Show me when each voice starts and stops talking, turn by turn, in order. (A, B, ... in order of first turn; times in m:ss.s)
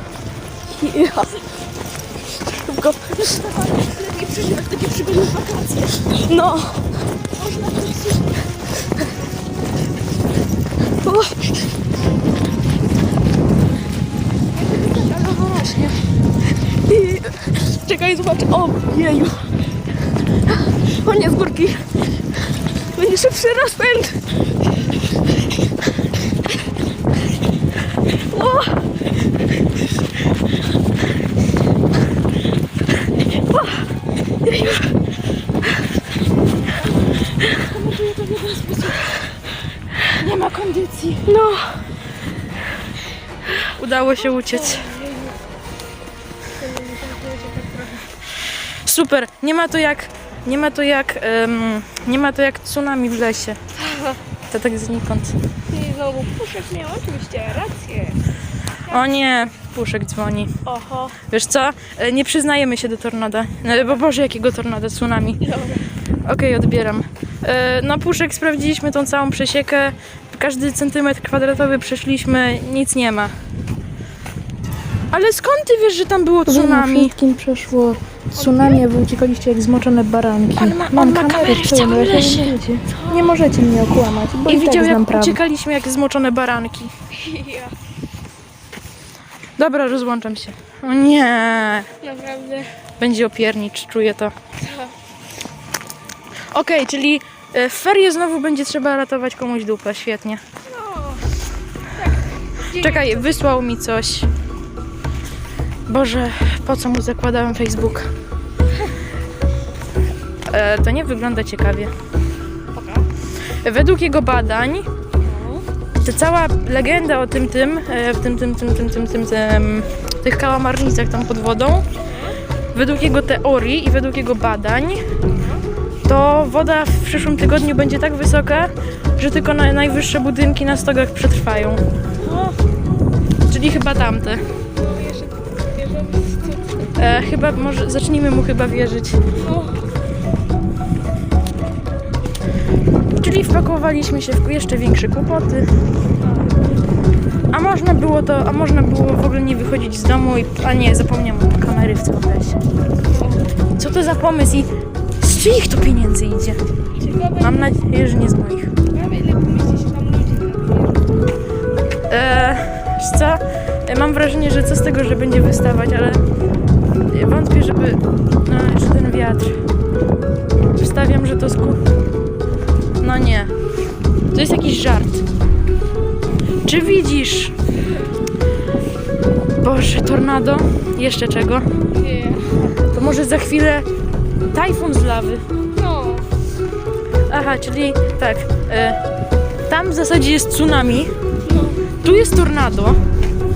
0:00.7-0:01.4 A
0:02.4-0:03.4 A
0:03.2-0:06.0 B
0:06.1-0:06.8 A
0:07.4-0:08.2 B
0:11.0-0:11.4 A
0:15.2-0:15.9 B
0:16.6-0:19.5 A
0:20.6-0:21.8 A
0:22.9-0:24.2 A
0:28.3-0:28.8 A
0:34.5-0:34.8 A
0:37.6-0:39.0 B
0:40.1-0:41.3 B
0:41.2-0:41.8 A
0:43.7-0:44.9 B
0:44.4-0:45.4 A
0:46.6-0:48.1 A
0:48.7-0:53.6 B
0:54.5-0:55.4 B
0:55.7-0:58.2 A
0:58.9-1:00.5 B
1:00.6-1:01.1 A
1:01.3-1:05.4 B
1:05.4-1:05.9 A
1:06.2-1:13.3 B
1:15.1-1:17.2 B
1:16.4-1:25.4 C
1:18.3-1:18.8 A
1:18.4-1:18.8 B
1:20.6-1:22.6 B
1:22.9-1:23.4 A
1:24.4-1:26.9 B
1:27.1-1:27.7 A
1:29.6-1:31.9 B
1:32.0-1:32.7 A
1:33.0-1:34.3 B
1:34.6-1:34.9 A
1:36.5-1:40.4 B
1:40.7-1:41.3 A
1:41.9-1:43.4 A
1:42.7-1:44.3 B
1:45.9-1:48.1 B
1:50.5-1:51.9 B
1:52.7-1:53.0 A
1:53.6-1:54.9 B
1:55.2-1:55.6 A
1:56.0-2:01.8 B
2:02.0-2:02.4 A
2:02.7-2:05.0 B
2:05.2-2:05.6 A
2:06.0-2:11.8 B
2:12.2-2:12.6 A
2:13.5-2:14.4 B
2:14.7-2:16.9 A
2:17.0-2:19.2 B
2:19.4-2:19.8 A
2:23.2-2:25.7 B
2:26.2-2:26.8 A
2:27.5-2:32.6 B
2:33.8-2:36.6 B
2:37.0-2:37.7 A
2:37.4-2:38.7 B
2:38.9-2:41.1 A
2:42.1-2:46.2 B
2:47.1-2:49.6 B
2:50.8-2:51.8 B
2:53.0-2:53.5 B
2:54.3-2:55.2 B
2:56.6-2:57.5 B
2:59.6-3:01.6 B
3:01.9-3:02.7 A
3:02.8-3:03.8 B
3:04.5-3:05.4 B
3:05.8-3:06.2 A
3:07.3-3:09.0 B
3:09.7-3:11.1 B
3:11.4-3:11.8 A
3:12.0-3:13.0 B